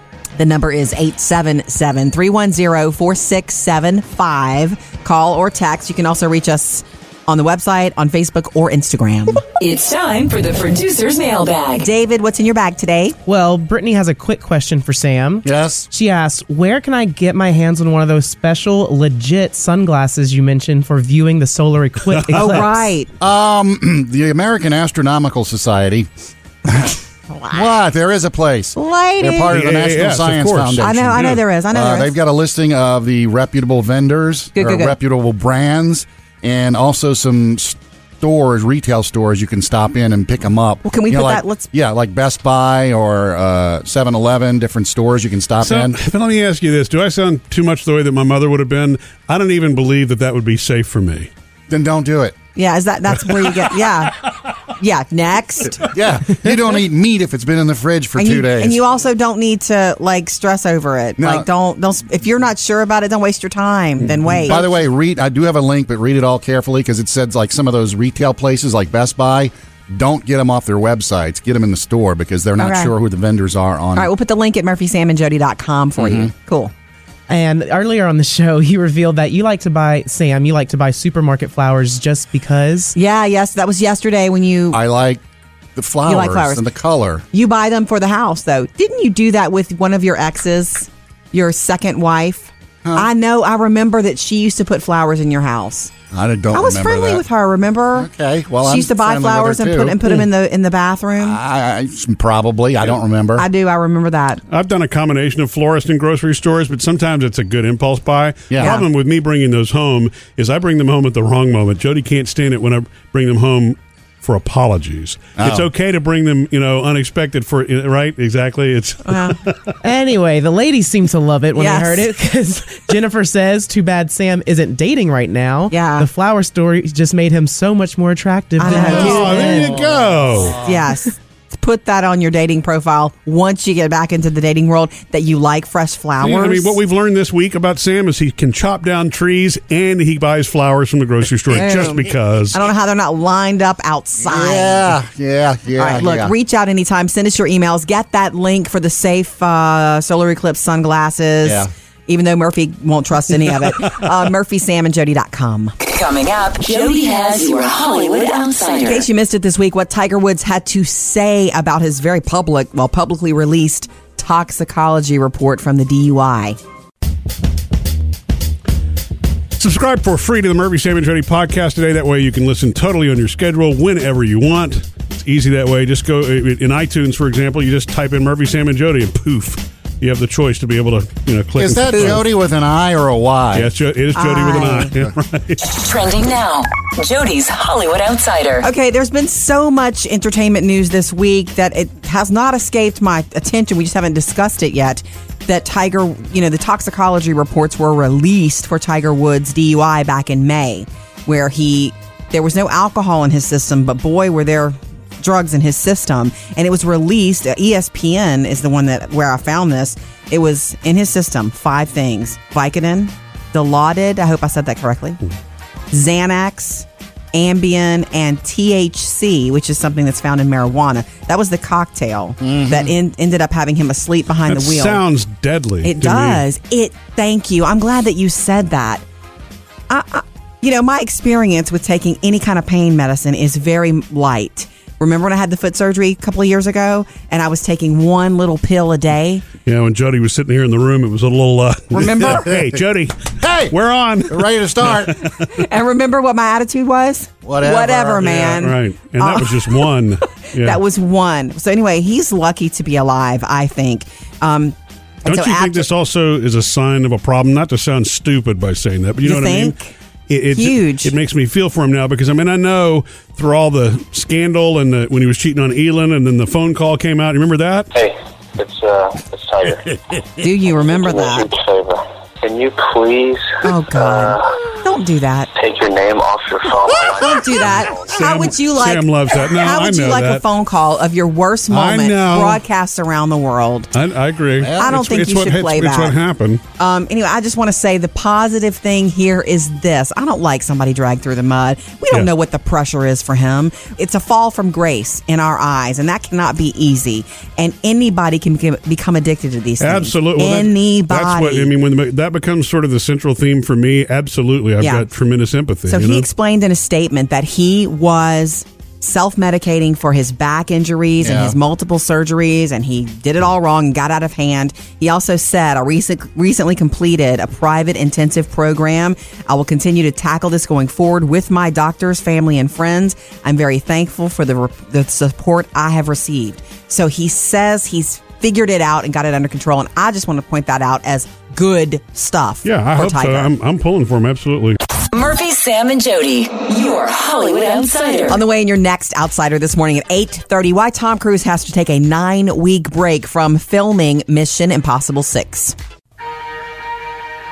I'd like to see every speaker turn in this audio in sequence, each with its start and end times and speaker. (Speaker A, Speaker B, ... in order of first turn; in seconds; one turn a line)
Speaker A: 0.4-9.4
Speaker B: 9.6-11.9
Speaker A: 11.8-13.2
Speaker C: 13.3-22.9
Speaker D: 15.4-15.9
Speaker E: 22.1-22.6
Speaker A: 22.3-23.1
Speaker D: 23.2-26.1
Speaker D: 26.7-27.0
Speaker A: 27.3-27.7
Speaker D: 27.5-46.0
Speaker A: 28.8-29.5
Speaker E: 29.5-31.4
Speaker A: 30.8-32.1
Speaker A: 34.5-35.0
Speaker A: 40.9-41.7
Speaker E: 45.6-51.3
Speaker D: 51.7-52.4
Speaker A: 52.5-54.2
Speaker A: 54.8-55.9
Speaker D: 55.9-58.8
Speaker A: 58.2-64.8
Speaker D: 61.2-61.5
Speaker D: 64.5-74.1
Speaker A: 72.6-72.9
Speaker A: 74.0-76.7
Speaker D: 76.0-76.3
Speaker C: 77.3-82.9
Speaker A: 83.0-84.8
Speaker D: 84.7-85.2
Speaker D: 85.8-87.2
Speaker A: 86.1-86.6
Speaker A: 87.3-95.9
Speaker D: 92.8-93.1
Speaker D: 96.1-97.2
Speaker A: 96.5-98.1
Speaker D: 98.0-100.2
Speaker A: 98.6-101.4
Speaker D: 101.2-103.5
Speaker A: 103.4-104.4
Speaker E: 104.5-119.7
Speaker D: 108.5-108.8
Speaker A: 108.6-108.9
Speaker D: 115.4-115.7
Speaker A: 119.0-119.4
Speaker C: 119.8-129.7
Speaker A: 121.6-122.1
Speaker A: 125.7-126.1
Speaker A: 128.6-129.8
Speaker E: 128.7-130.6
Speaker D: 129.5-130.8
Speaker A: 130.5-136.8
Speaker E: 136.2-142.6
Speaker A: 141.5-144.9
Speaker D: 144.2-146.3
Speaker A: 145.8-155.7
Speaker D: 151.4-151.7
Speaker B: 155.8-159.1
Speaker A: 158.8-166.6
Speaker E: 169.6-182.3
Speaker D: 181.6-183.7
Speaker A: 181.9-182.2
Speaker E: 183.5-185.7
Speaker A: 184.2-184.9
Speaker B: 185.6-188.7
Speaker A: 188.6-215.2
Speaker A: 215.9-225.0
Speaker D: 222.4-222.9
Speaker E: 224.5-226.4
Speaker A: 225.8-229.0
Speaker A: 229.9-239.4
Speaker E: 239.7-245.5
Speaker A: 241.9-242.5
Speaker D: 242.0-242.8
Speaker D: 243.4-243.7
Speaker D: 244.3-245.2
Speaker A: 245.4-249.9
Speaker D: 247.4-248.6
Speaker E: 248.2-250.8
Speaker A: 250.6-255.9
Speaker E: 255.3-259.8
Speaker A: 259.2-259.9
Speaker E: 260.3-267.9
Speaker A: 260.5-261.1
Speaker F: 267.9-269.9
Speaker A: 270.4-271.5
Speaker F: 270.9-274.6
Speaker A: 273.6-275.5
Speaker F: 275.6-278.1
Speaker D: 277.1-277.7
Speaker A: 277.2-283.9
Speaker E: 278.0-280.4
Speaker E: 281.7-282.6
Speaker E: 283.9-286.6
Speaker D: 284.6-285.2
Speaker A: 284.8-286.2
Speaker A: 286.8-301.7
Speaker E: 299.8-306.3
Speaker A: 304.8-305.1
Speaker A: 305.9-333.5
Speaker D: 311.2-311.6
Speaker E: 332.6-334.8
Speaker B: 335.1-338.4
Speaker A: 338.3-345.8